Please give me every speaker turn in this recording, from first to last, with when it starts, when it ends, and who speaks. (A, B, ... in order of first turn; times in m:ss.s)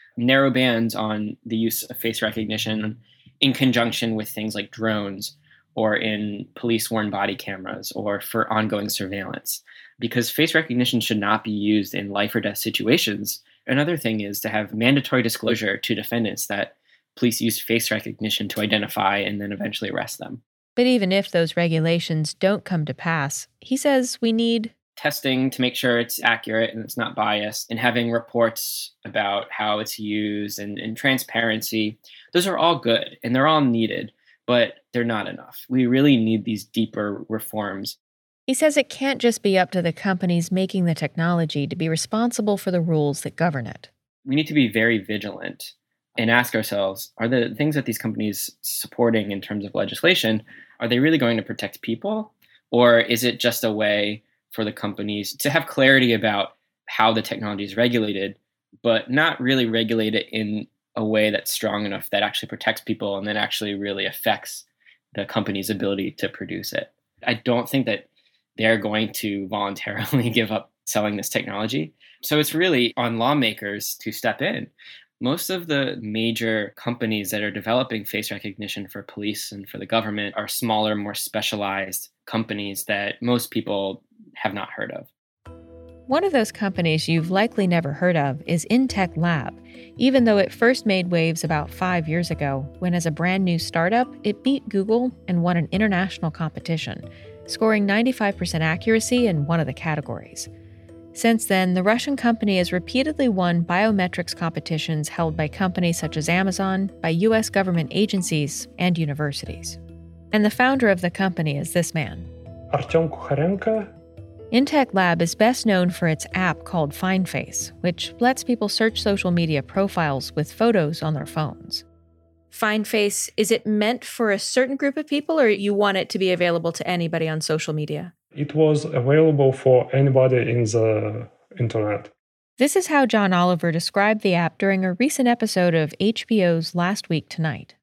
0:00.2-0:20.4 A
0:20.8-0:24.7 B
0:25.0-0:38.0 A
0:38.5-0:43.9 B
0:44.2-1:08.0 A
1:08.6-1:25.1 A
1:26.1-1:40.5 B
1:41.1-1:49.8 B
1:50.3-1:52.3 B
1:52.7-1:53.9 C
1:54.5-2:01.8 B
2:02.5-2:08.1 B
2:08.3-2:12.1 C
2:12.6-2:17.7 B